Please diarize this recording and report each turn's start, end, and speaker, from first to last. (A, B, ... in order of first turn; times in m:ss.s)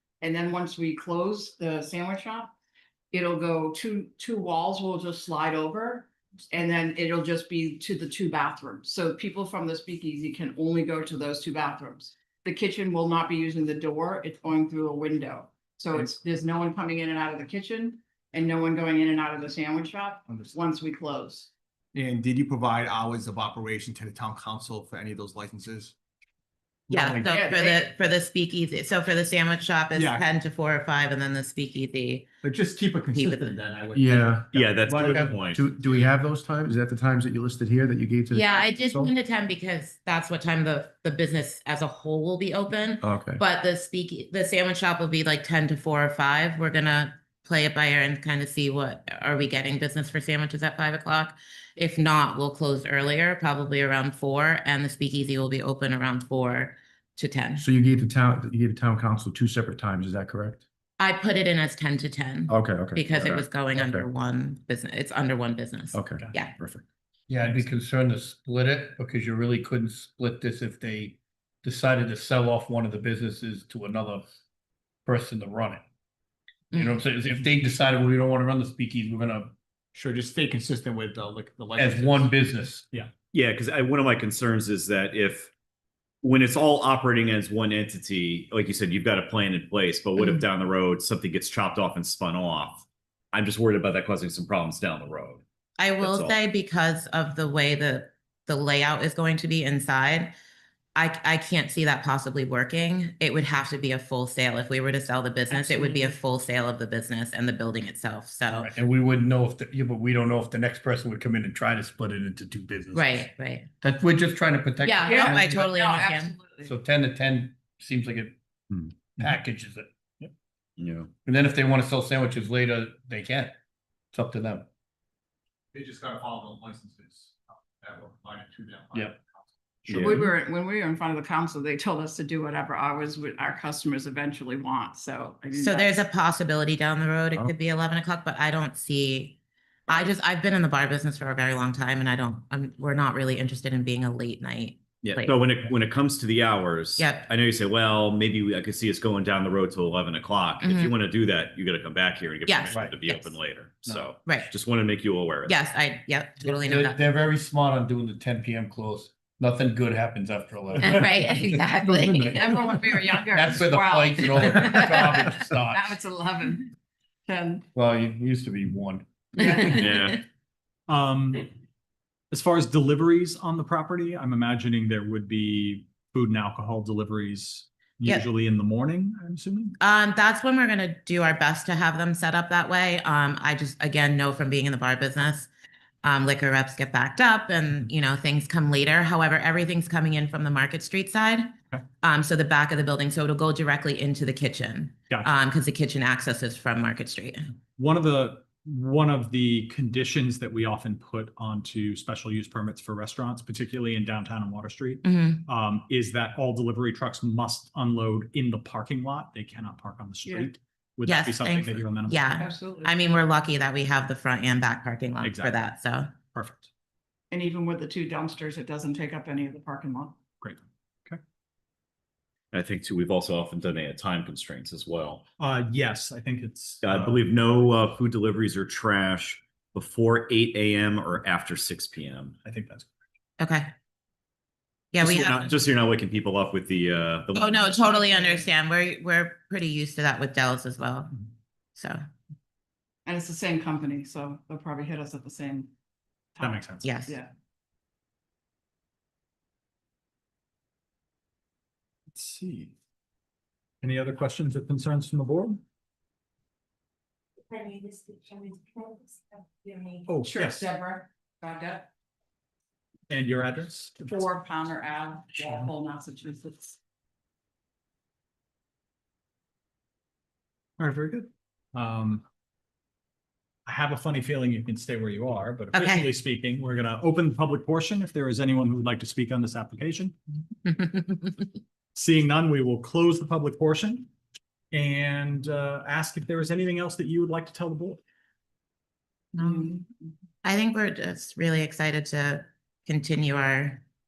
0:00.2-0:02.5 A
0:03.1-0:21.5 A
0:20.3-0:20.6 B
0:21.9-0:26.0 B
0:26.9-0:27.3 B
0:26.9-0:32.3 C
0:27.2-0:27.8 A
0:29.9-0:30.2 B
0:32.4-0:35.1 B
0:33.1-0:33.6 C
0:33.9-0:34.6 D
0:34.5-0:35.7 E
0:35.0-0:35.4 F
0:35.1-0:39.1 D
0:38.3-0:57.6 C
0:43.0-0:43.4 D
0:57.6-1:00.6 D
1:01.0-1:06.5 C
1:02.5-1:04.1 D
1:05.9-1:06.8 D
1:07.3-1:14.3 G
1:15.1-1:15.8 G
1:16.7-1:19.5 G
1:16.7-1:17.0 C
1:19.9-1:22.3 B
1:21.8-1:22.9 G
1:23.3-1:25.5 E
1:26.2-1:35.4 E
1:35.8-1:40.3 C
1:36.0-1:36.4 E
1:41.0-1:48.7 C
1:45.5-1:46.1 A
1:48.6-1:53.3 G
1:52.9-1:53.7 C
1:53.8-1:55.7 G
1:54.8-1:56.3 C
1:55.0-1:56.7 A
1:56.6-1:58.4 G
1:59.0-1:59.9 G
2:00.8-2:01.1 E
2:01.2-2:03.5 G
2:04.1-2:04.7 G
2:05.7-2:09.4 B
2:09.9-2:10.2 G
2:09.9-2:10.2 E
2:10.0-2:16.0 A
2:15.5-2:25.4 C
2:25.0-2:35.6 E
2:27.0-2:27.3 C
2:30.6-2:31.0 C
2:32.5-2:33.4 C
2:34.2-2:34.5 C
2:35.4-2:37.0 C
2:36.4-2:46.0 G
2:40.8-2:42.4 C
2:42.2-2:46.7 A
2:44.5-2:44.8 C
2:47.3-2:47.6 A
2:47.8-2:49.8 G
2:49.4-2:49.8 C
2:49.7-2:50.2 E
2:50.9-2:51.5 F
2:52.3-2:59.8 F
2:59.8-3:05.5 C
3:06.0-3:17.5 C
3:17.8-3:32.4 F
3:25.0-3:25.4 C
3:30.2-3:30.5 A
3:31.1-3:36.1 C
3:32.4-3:32.9 A
3:35.2-3:35.7 F
3:36.3-3:36.7 F
3:37.3-3:40.2 A
3:40.4-3:41.2 F
3:42.5-3:45.2 E
3:45.4-3:47.2 F
3:46.8-3:52.3 E
3:52.4-3:52.9 F
3:53.4-3:53.7 C
3:54.9-3:55.6 C
3:55.0-3:58.1 E
3:57.3-4:01.2 C
3:58.0-3:58.5 A
4:03.1-4:05.7 A
4:06.4-4:07.3 A
4:06.4-4:06.9 F
4:06.8-4:07.2 C
4:12.1-4:12.7 F
4:13.8-4:15.6 F
4:17.5-4:20.0 C
4:20.1-4:20.7 F
4:20.2-4:21.9 A
4:23.1-4:24.2 F
4:24.0-4:26.8 A
4:30.8-4:32.2 F
4:33.7-4:40.1 F
4:35.7-4:36.1 C
4:40.7-4:41.4 C
4:42.0-4:44.1 F
4:44.7-4:48.0 F
4:49.4-4:49.8 C
4:49.4-4:50.1 A
4:50.4-4:53.8 C